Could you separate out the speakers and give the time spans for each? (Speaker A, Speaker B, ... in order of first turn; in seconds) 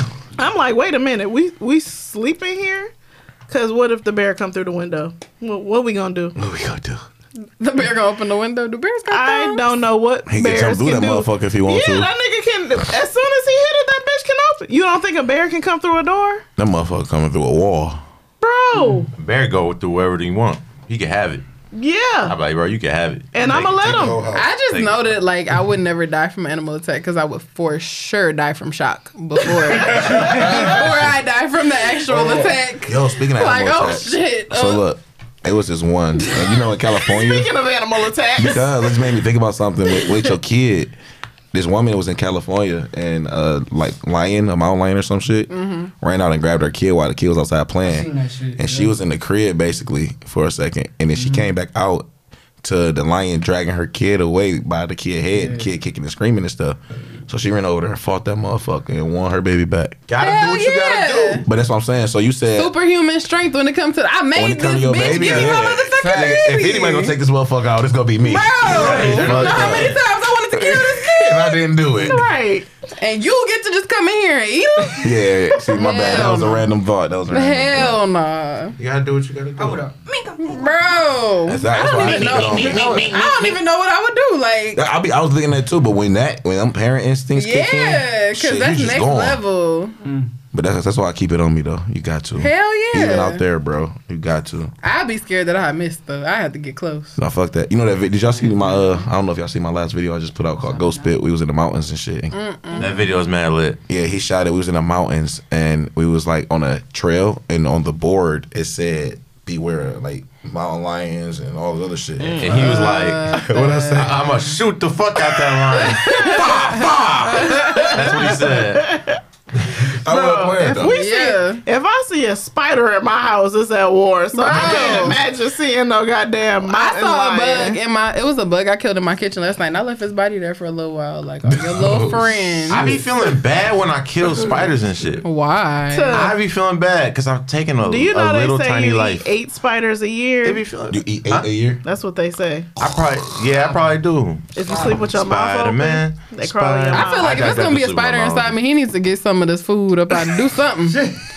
Speaker A: 0.4-2.9, 3.5-6.4, 9.1-16.4, 18.4-19.1, 21.7-22.3, 23.3-24.2, 36.4-38.9, 39.9-40.2, 72.0-72.7, 112.2-112.7, 117.7-119.2, 120.0-127.8, 135.9-136.3, 137.8-140.6, 141.8-142.7, 144.5-147.5
Speaker B: 6.3-7.0, 10.3-12.1, 16.6-18.0, 23.4-24.5, 29.9-31.1, 32.1-37.5, 38.4-40.9, 41.5-52.1, 52.6-60.0, 61.4-62.7, 64.3-70.0, 70.5-72.2, 75.0-78.0, 81.5-82.9, 84.7-89.4, 90.5-94.7, 97.2-102.3, 103.9-114.4, 116.0-118.6, 120.0-121.0, 131.4-133.1, 140.9-141.8, 142.8-143.4
Speaker C: 7.6-9.7, 24.3-34.8, 45.5-45.9, 60.2-61.4, 62.6-67.1, 68.2-71.6, 73.0-76.7, 77.3-78.8, 80.4-84.8, 87.3-90.0, 92.4-93.4, 94.8-97.2, 102.3-103.0, 112.5-114.2, 115.8-117.9, 120.8-121.6, 124.3-125.2, 126.7-132.8, 135.2-136.2, 146.9-151.0
Speaker D: 19.1-21.4, 22.2-23.8, 24.7-25.1, 60.1-61.5, 68.7-70.0, 78.8-79.8, 82.0-83.6, 102.8-103.8, 112.2-113.4, 113.9-116.5, 117.9-119.0, 132.7-135.2, 136.1-139.3, 140.4-141.5, 142.8-148.6
Speaker E: 29.8-30.8, 47.8-48.9, 51.1-51.5, 55.3-55.7, 66.1-66.3, 68.8-69.4, 79.6-80.7, 82.6-83.2, 90.0-90.3, 98.3-99.0, 100.6-101.1, 143.6-144.0, 144.6-145.0